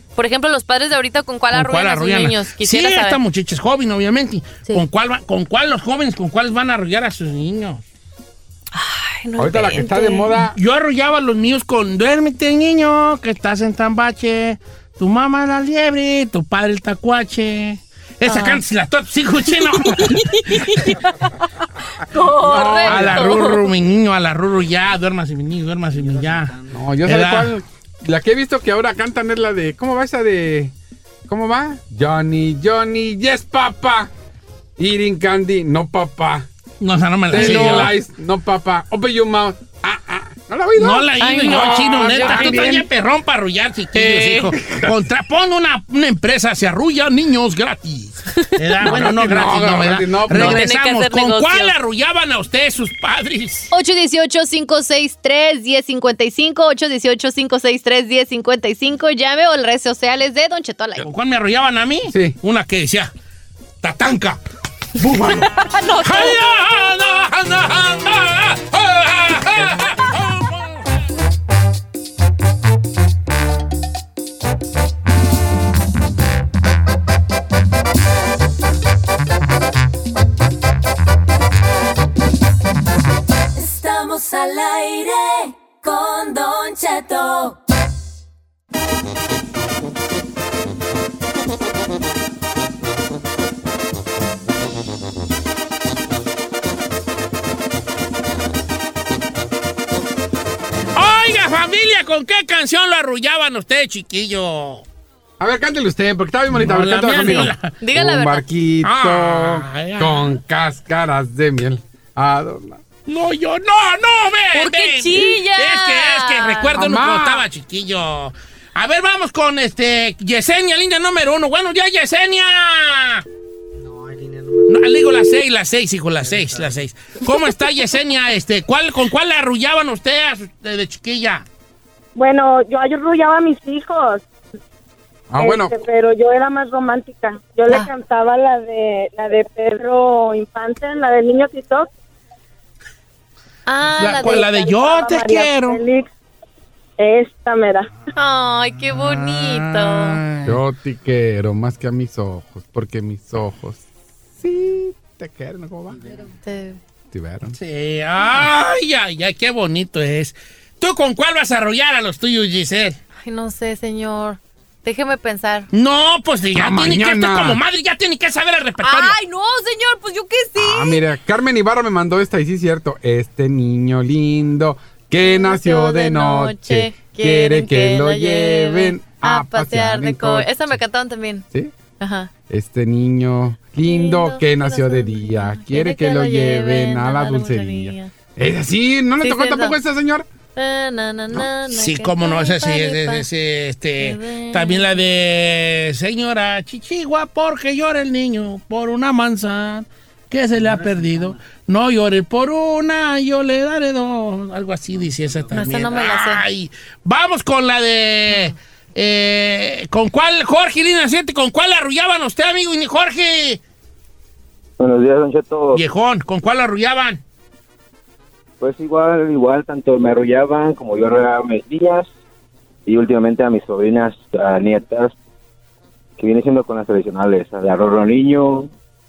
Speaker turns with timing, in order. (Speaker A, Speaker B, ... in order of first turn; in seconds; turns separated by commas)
Speaker A: 0.2-3.2, Speaker B: 1.5-7.8, Speaker A: 8.8-10.3, Speaker C: 9.4-10.6, Speaker B: 10.5-20.9, Speaker A: 18.3-18.6, Speaker A: 19.9-20.9, Speaker A: 22.1-23.6, Speaker C: 22.4-23.4, Speaker B: 22.8-27.5, Speaker C: 26.7-30.7, Speaker C: 31.3-34.1, Speaker C: 34.8-36.5, Speaker B: 36.8-37.9, Speaker C: 37.3-42.9, Speaker B: 40.8-53.7, Speaker A: 41.2-42.7, Speaker A: 44.1-44.5, Speaker C: 44.2-44.9, Speaker C: 48.8-50.7, Speaker A: 50.3-51.7, Speaker A: 53.7-61.0, Speaker B: 61.0-63.1, Speaker C: 62.1-62.4, Speaker B: 63.8-64.4, Speaker B: 65.0-71.0, Speaker A: 65.6-66.4, Speaker D: 83.5-87.6, Speaker B: 100.9-104.8, Speaker C: 105.4-112.8, Speaker B: 106.5-107.8, Speaker A: 107.8-108.4, Speaker B: 108.8-110.3, Speaker B: 113.0-123.2, Speaker A: 114.5-116.7, Speaker C: 116.7-117.4, Speaker B: 124.6-131.4, Speaker E: 132.2-134.2, Speaker C: 135.3-135.7, Speaker E: 135.4-141.9, Speaker A: 143.7-144.4, Speaker B: 144.0-145.8, Speaker E: 144.0-146.1, Speaker E: 147.0-147.9, Speaker A: 148.4-150.2, Speaker B: 148.8-150.6, Speaker C: 150.4-153.8, Speaker C: 154.4-156.0, Speaker A: 156.5-156.8, Speaker C: 157.1-157.6, Speaker B: 157.6-163.0, Speaker A: 163.2-165.7, Speaker B: 165.7-169.2, Speaker C: 166.5-167.6, Speaker A: 168.8-171.0, Speaker C: 170.6-180.8, Speaker A: 175.2-181.4, Speaker A: 182.0-182.3, Speaker C: 182.5-190.3, Speaker A: 183.8-188.1, Speaker A: 189.2-189.7, Speaker A: 190.6-193.2, Speaker B: 191.3-213.6, Speaker A: 194.0-194.8, Speaker A: 205.5-206.4, Speaker F: 214.8-215.8, Speaker B: 215.7-217.2, Speaker F: 218.6-222.1, Speaker F: 222.8-225.1, Speaker F: 226.2-228.7